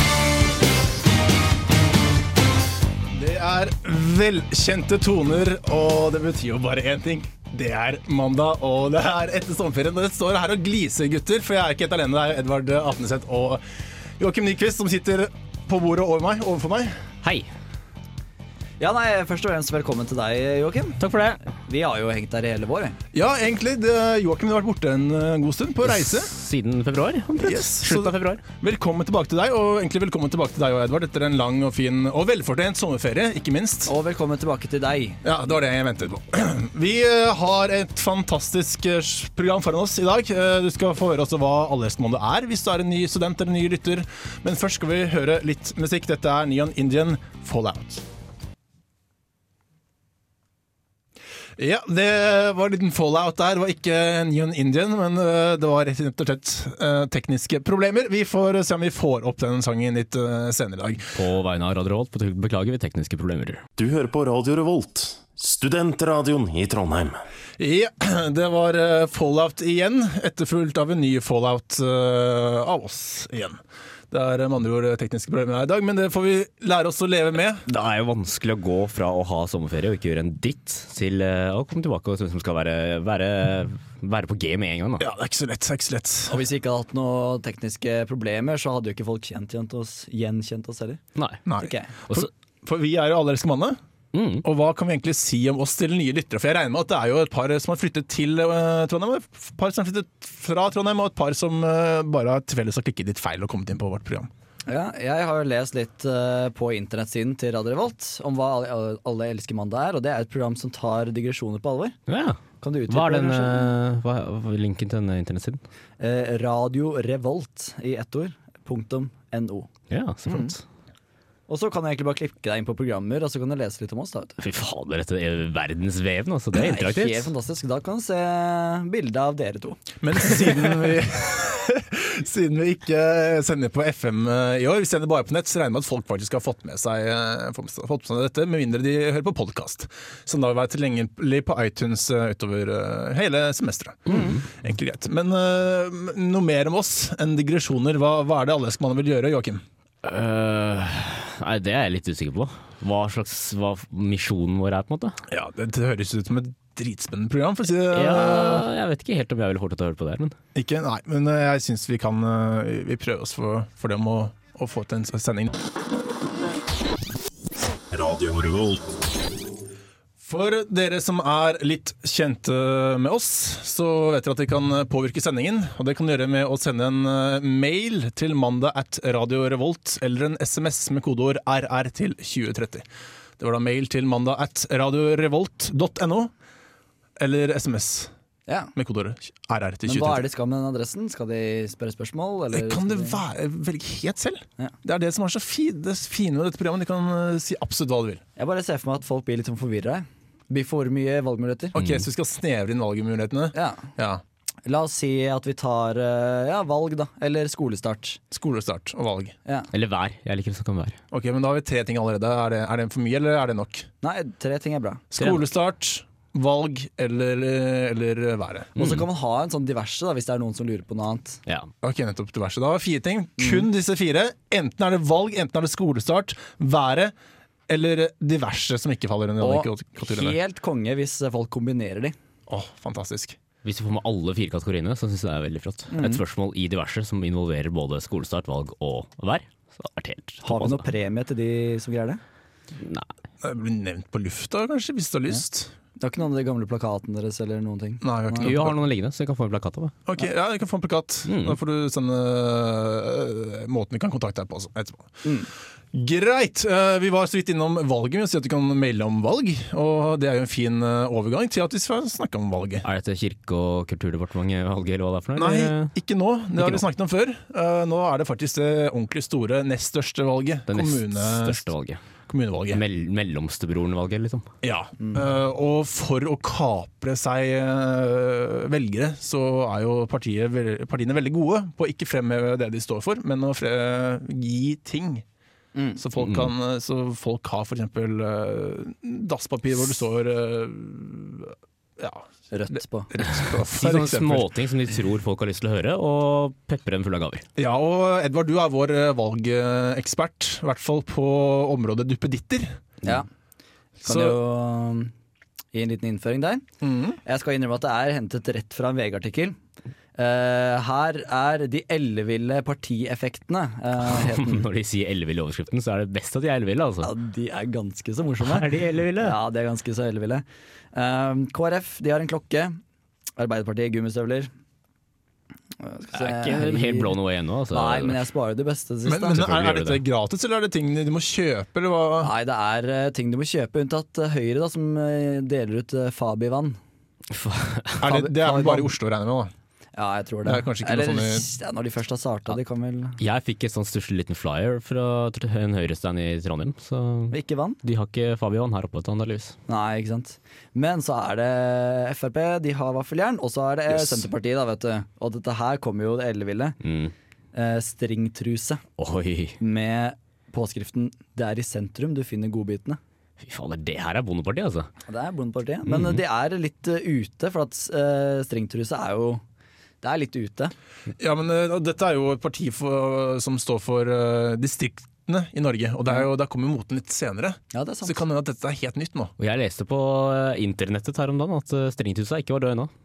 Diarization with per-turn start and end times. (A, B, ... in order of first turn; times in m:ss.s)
0:03.1-0:13.6 A
0:14.2-0:17.0 A
0:17.2-0:17.5 B
0:18.8-0:23.0 C
0:21.0-0:21.4 B
0:23.1-0:26.3 A
0:25.8-0:28.4 B
0:27.4-0:33.9 A
0:33.8-0:35.2 C
0:35.2-0:48.0 A
0:51.6-1:01.1 A
1:01.1-1:03.6 B
1:03.8-1:07.2 D
1:07.6-1:13.6 A
1:14.1-1:17.6 A
1:17.7-1:25.0 B
1:25.0-1:26.4 A
1:26.3-1:31.0 C
1:31.2-1:31.4 B
1:31.4-1:33.8 A
1:31.6-1:31.9 C
1:34.1-1:34.4 B
1:34.4-1:44.3 A
1:44.7-1:52.0 C
1:52.1-1:55.6 B
1:52.6-1:53.7 C
1:56.0-1:59.7 C
1:59.9-2:00.6 B
2:00.2-2:00.5 C
2:01.5-2:04.4 C
2:04.4-2:07.3 B
2:06.5-2:10.4 C
2:10.0-2:29.6 A
2:24.1-2:24.4 B
2:30.0-2:35.2 B
2:35.3-2:38.6 A
2:37.9-2:40.3 B
2:40.5-2:45.6 A
2:47.9-2:48.9 D
2:50.2-3:02.8 A
3:03.4-3:06.3 A
3:07.2-3:08.1 A
3:08.5-3:08.7 C
3:08.8-3:10.2 A
3:09.8-3:13.2 C
3:12.5-3:18.2 A
3:18.4-3:21.8 C
3:21.7-3:24.2 A
3:21.8-3:22.0 B
3:23.5-3:23.9 C
3:24.6-3:28.2 C
3:28.3-3:29.3 A
3:29.7-3:31.0 B
3:31.1-3:33.9 A
3:34.0-3:35.0 C
3:35.1-3:38.7 A
3:35.2-3:35.4 B
3:38.8-3:39.1 B
3:38.8-3:41.4 C
3:41.8-3:47.1 A
3:43.4-3:43.6 C
3:47.7-3:50.4 A
3:49.4-3:52.2 C
3:52.5-3:53.4 A
3:53.6-4:00.9 B
3:55.9-3:56.2 C
4:00.4-4:02.2 C
4:02.8-4:03.1 B
4:03.4-4:05.7 A
4:06.0-4:08.5 C
4:08.0-4:08.8 A
4:08.4-4:10.0 B
4:10.0-4:15.1 A
4:11.3-4:11.6 B
4:15.2-4:15.5 C
4:15.9-4:22.8 A
4:22.8-4:25.9 B
4:25.4-4:31.6 A
4:26.6-4:26.8 B
4:30.7-4:32.0 B
4:32.3-4:32.8 A
4:32.7-4:34.5 B
4:34.6-4:45.2 A
4:45.7-4:46.0 C
4:46.0-4:54.5 A
4:46.2-4:46.5 B
4:52.5-4:53.1 C
4:53.2-4:57.4 B
4:57.6-5:02.8 A
5:04.0-5:04.4 A
5:04.0-5:05.1 C
5:05.7-5:06.6 C
5:06.8-5:07.2 A
5:07.2-5:09.6 C
5:10.2-5:14.6 C
5:14.0-5:17.1 B
5:17.0-5:22.8 C
5:18.4-5:19.4 B
5:23.4-5:24.5 C
5:25.8-5:27.1 C
5:26.1-5:28.2 B
5:27.7-5:29.4 C
5:29.0-5:32.3 A
5:29.3-5:30.0 B
5:32.2-5:36.8 C
5:37.3-5:38.0 B
5:38.0-5:39.5 A
5:38.0-5:38.9 C
5:40.0-5:43.2 C
5:40.4-5:41.4 A
5:43.2-5:49.6 B
5:47.3-5:47.8 C
5:49.7-5:56.8 C
5:56.8-5:57.1 B
5:57.5-5:58.8 C
5:59.0-5:59.6 B
5:59.6-6:03.0 C
6:03.4-6:04.9 B
6:05.1-6:09.4 C
6:05.9-6:06.2 B
6:10.0-6:10.7 C
6:11.2-6:19.3 A
6:17.7-6:18.2 C
6:19.4-6:22.9 B